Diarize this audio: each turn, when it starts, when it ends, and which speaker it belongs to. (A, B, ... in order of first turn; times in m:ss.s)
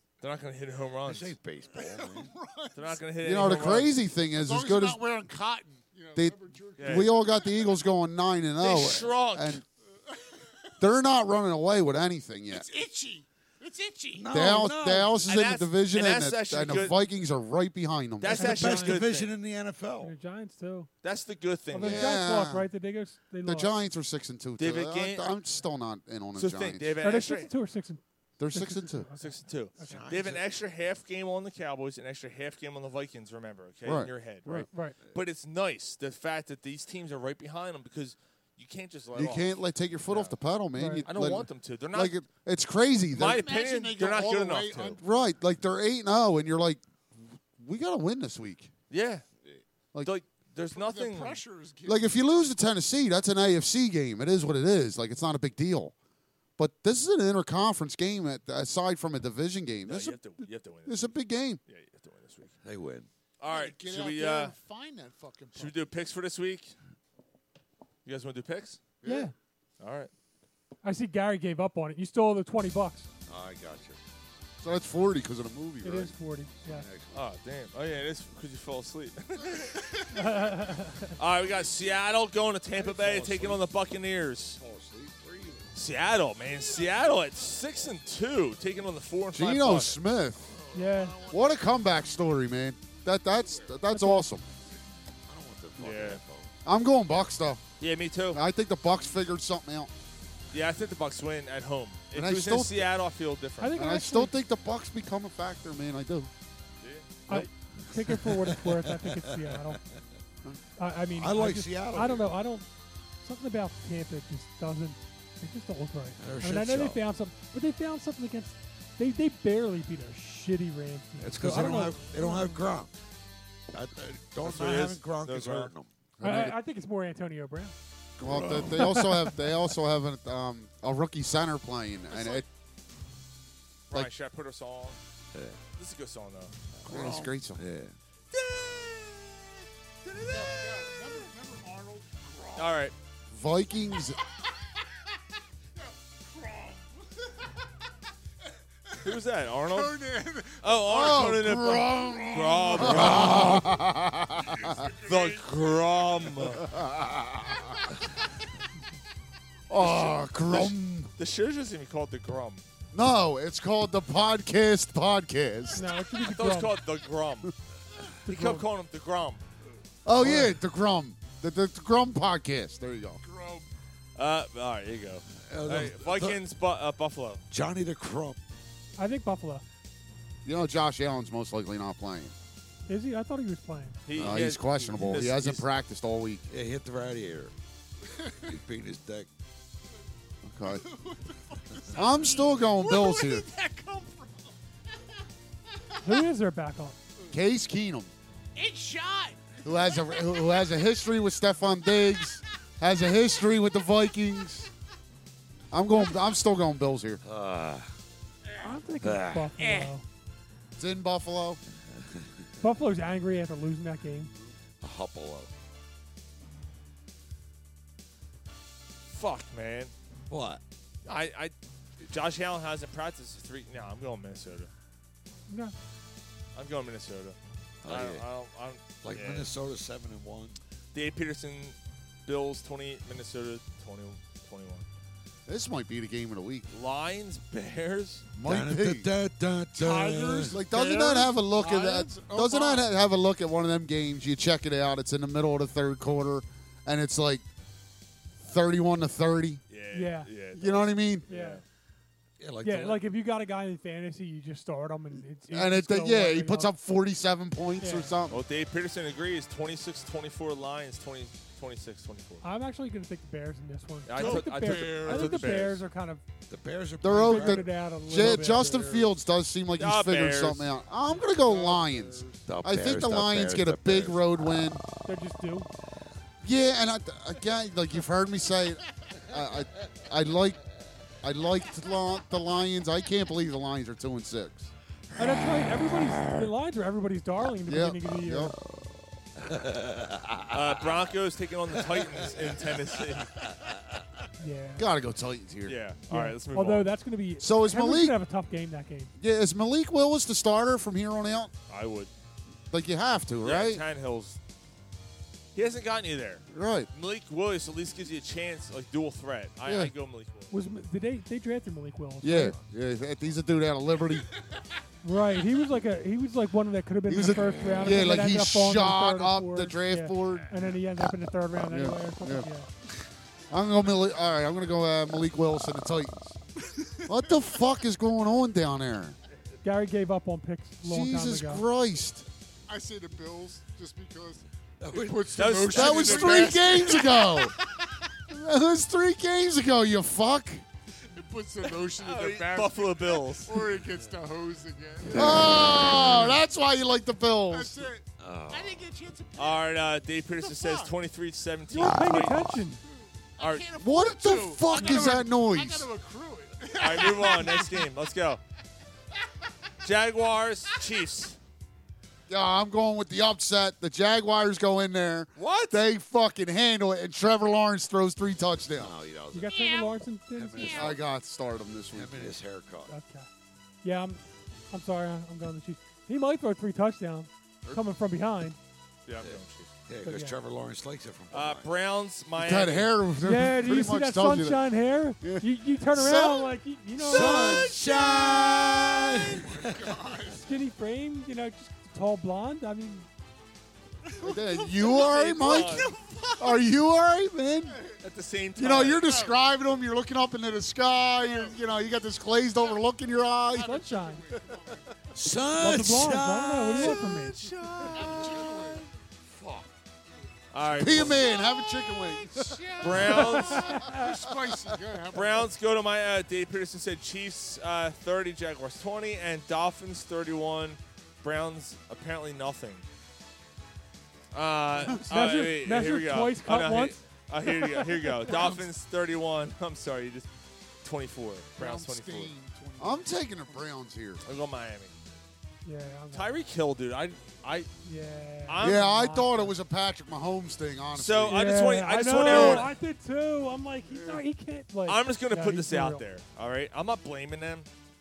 0:00.2-0:01.4 A
0:01.1-0:02.3 B
0:01.7-0:03.0 C
0:02.7-0:04.0 A
0:03.2-0:05.0 D
0:04.3-0:07.8 C
0:06.2-0:09.6 D
0:06.8-0:07.1 A
0:08.6-0:09.6 A
0:10.0-0:10.7 C
0:10.8-0:12.7 D
0:12.5-0:14.3 C
0:14.1-0:15.2 B
0:14.3-0:18.6 D
0:15.3-0:17.0 A
0:18.2-0:19.3 A
0:18.4-0:20.1 B
0:18.4-0:19.0 E
0:20.0-0:20.9 E
0:21.0-0:22.2 A
0:21.7-0:23.7 E
0:21.8-0:22.7 D
0:23.4-0:27.0 D
0:24.6-0:25.4 A
0:26.4-0:27.5 A
0:27.0-0:30.0 E
0:28.4-0:29.1 D
0:29.2-0:39.6 A
0:29.9-0:30.5 B
0:33.8-0:34.1 D
0:34.4-0:35.0 E
0:39.1-0:43.4 D
0:40.7-0:41.1 E
0:41.0-0:42.2 A
0:43.1-0:45.0 A
0:43.2-0:45.0 C
0:45.0-0:48.7 D
0:48.9-0:49.2 A
0:50.0-0:51.4 A
0:50.7-0:52.2 C
0:51.9-0:55.9 D
0:56.6-1:01.6 D
0:59.9-1:01.1 A
1:01.7-1:02.6 A
1:02.6-1:03.1 B
1:03.4-1:04.6 A
1:03.4-1:05.9 C
1:05.6-1:06.8 A
1:08.0-1:08.8 A
1:09.0-1:09.3 E
1:09.8-1:10.1 A
1:10.8-1:13.1 E
1:13.3-1:14.0 B
1:14.6-1:16.1 D
1:15.8-1:16.9 E
1:16.6-1:17.3 B
1:17.1-1:19.8 A
1:20.1-1:21.2 E
1:21.2-1:24.6 A
1:22.7-1:23.7 B
1:24.6-1:25.7 B
1:25.7-1:30.0 A
1:29.3-1:30.5 D
1:30.5-1:31.5 B
1:30.8-1:31.2 E
1:31.3-1:34.5 D
1:33.9-1:34.2 E
1:35.3-1:36.5 B
1:35.8-1:36.2 A
1:36.6-1:37.6 D
1:37.8-1:38.4 A
1:38.3-1:39.9 D
1:40.5-1:43.8 A
1:42.1-1:42.9 D
1:43.6-1:44.3 E
1:43.7-1:46.3 D
1:47.3-1:49.8 E
1:48.1-1:49.7 B
1:50.8-1:52.7 E
1:51.2-1:52.3 B
1:53.2-2:02.6 E
1:56.2-1:57.0 B
2:01.2-2:02.9 B
2:03.7-2:05.9 B
2:04.4-2:05.7 A
2:06.2-2:06.6 D
2:06.2-2:07.8 E
2:08.2-2:09.1 B
2:08.2-2:12.5 D
2:08.8-2:09.3 E
2:12.1-2:12.4 C
2:13.9-2:15.0 A
2:15.3-2:15.6 B
2:15.8-2:16.6 A
2:16.7-2:18.0 B
2:16.8-2:17.6 D
2:18.3-2:19.5 A
2:20.1-2:21.0 A
2:20.2-2:22.8 C
2:22.6-2:22.9 A
2:23.3-2:24.2 D
2:24.2-2:25.2 C
2:25.8-2:27.7 C
2:28.4-2:33.4 C
2:29.0-2:30.0 A
2:30.6-2:33.7 A
2:30.9-2:34.9 D
2:32.9-2:33.6 B
2:34.3-2:36.7 C
2:35.1-2:36.7 A
2:36.6-2:37.8 D
2:39.7-2:41.1 D
2:39.8-2:42.6 A
2:42.9-2:45.8 D
2:45.8-2:46.7 E
2:46.2-2:47.5 A
2:48.3-2:49.4 A
2:48.3-2:48.6 D
2:48.3-2:48.6 E
2:50.0-2:53.2 D
2:50.2-2:50.6 B
2:53.2-2:53.7 C
2:54.2-2:57.4 A
2:55.4-2:56.4 B
2:57.5-2:58.4 B
2:59.0-2:59.6 E
3:00.4-3:02.3 D
3:02.9-3:04.0 E
3:04.1-3:05.6 A
3:04.2-3:04.5 B
3:04.2-3:06.4 D
3:06.5-3:07.5 B
3:08.5-3:09.3 B
3:10.4-3:10.9 D
3:10.7-3:14.6 C
3:12.0-3:13.5 D
3:15.7-3:16.3 C
3:16.0-3:17.0 E
3:17.3-3:18.1 D
3:18.6-3:20.7 C
3:19.6-3:24.7 D
3:25.7-3:27.2 D
3:27.2-3:27.9 B
3:28.6-3:30.0 E
3:29.0-3:29.6 B
3:30.8-3:31.6 D
3:32.6-3:34.3 E
3:34.8-3:35.5 B
3:39.1-3:39.9 A
3:40.3-3:40.6 B
3:41.0-3:44.7 A
3:45.5-3:45.8 E
3:46.6-3:49.5 A
3:47.8-3:48.2 B
3:49.0-3:50.6 B
3:50.9-3:54.9 A
3:55.5-3:56.7 D
3:56.7-3:58.3 A
3:58.4-3:59.1 D
3:58.4-4:00.6 B
3:59.8-4:02.9 C
4:00.5-4:07.5 D
4:08.4-4:09.6 D
4:09.7-4:11.6 A
4:09.9-4:10.3 E
4:10.6-4:11.3 D
4:11.3-4:11.6 E
4:12.4-4:13.0 B
4:12.6-4:16.7 E
4:15.5-4:18.4 D
4:17.8-4:18.1 E
4:18.3-4:22.4 A
4:22.4-4:26.2 E
4:24.1-4:25.8 A
4:24.2-4:25.3 C
4:26.5-4:28.7 B
4:27.0-4:34.8 D
4:27.2-4:29.1 E
4:29.8-4:30.7 A
4:31.2-4:32.4 C
4:32.5-4:34.3 B
4:35.0-4:35.7 E
4:36.4-4:40.6 D
4:41.2-4:44.7 D
4:45.2-4:48.5 E
4:47.6-4:48.6 D
4:49.4-4:50.9 B
4:50.5-4:53.4 A
4:51.7-4:54.0 B
4:54.4-4:54.9 E
4:54.8-4:55.8 D
4:55.7-4:56.9 A
4:56.1-4:59.1 E
4:57.4-4:58.2 D
4:59.2-5:01.5 D
5:01.7-5:02.1 A
5:02.7-5:03.8 D
5:03.4-5:04.4 A
5:05.6-5:10.5 A
5:06.5-5:06.9 D
5:09.7-5:09.9 D
5:10.5-5:12.6 E
5:12.2-5:14.3 D
5:14.2-5:14.6 C
5:15.0-5:22.7 E
5:17.1-5:20.6 D
5:21.7-5:22.5 D
5:23.5-5:26.4 D
5:26.7-5:27.1 C
5:27.1-5:29.2 D
5:29.6-5:31.6 E
5:30.8-5:32.3 D
5:32.7-5:38.1 C
5:34.8-5:36.7 B
5:35.4-5:36.5 A
5:35.7-5:37.6 D
5:38.3-5:40.6 D
5:41.1-5:46.2 C
5:42.0-5:43.6 A
5:45.1-5:46.4 B
5:45.1-5:47.8 D
5:47.5-5:49.9 C
5:48.2-5:48.8 B
5:49.4-5:52.7 A
5:50.4-5:50.9 C
5:51.7-5:52.8 E
5:52.8-5:57.9 C
5:53.4-5:53.6 A
5:53.8-5:55.9 D
5:56.8-5:58.4 A
5:59.8-6:01.4 A
6:02.3-6:09.0 D
6:05.4-6:05.8 A
6:08.7-6:09.5 B
6:09.3-6:10.9 E
6:09.4-6:10.0 C
6:10.3-6:11.1 B
6:10.7-6:12.4 D
6:11.9-6:13.0 B
6:12.9-6:13.3 E
6:13.8-6:14.2 E
6:14.7-6:18.6 E
6:19.1-6:19.7 A
6:19.2-6:21.7 B
6:20.0-6:20.4 E
6:21.3-6:22.9 A
6:22.4-6:24.7 D
6:23.2-6:27.8 E
6:25.2-6:26.6 D
6:27.0-6:30.0 B
6:27.2-6:30.5 C
6:30.4-6:33.1 E
6:34.0-6:36.6 C
6:34.2-6:37.8 D
6:34.9-6:35.9 A
6:37.7-6:38.0 C
6:38.0-6:39.1 A
6:38.6-6:43.8 D
6:38.9-6:39.5 C
6:41.2-6:41.8 C
6:43.5-6:45.1 C
6:43.6-6:44.2 E
6:45.2-6:48.6 B
6:45.6-6:47.5 E
6:46.8-6:48.8 A
6:47.9-6:48.9 C
6:49.3-6:49.7 B
6:50.5-6:51.2 A
6:50.7-6:53.3 D
6:51.0-6:55.5 C
6:52.8-6:53.8 A
6:53.1-6:54.0 E
6:54.0-6:54.8 D
6:55.1-7:02.8 A
7:04.3-7:10.3 A
7:04.9-7:08.5 E
7:10.8-7:12.3 A
7:11.6-7:13.7 C
7:12.8-7:14.2 D
7:14.2-7:14.9 A
7:15.6-7:16.3 E
7:16.1-7:17.7 A
7:17.8-7:19.5 E
7:18.5-7:18.9 A
7:18.6-7:22.7 D
7:20.9-7:22.7 A
7:21.2-7:26.0 E
7:24.9-7:27.7 A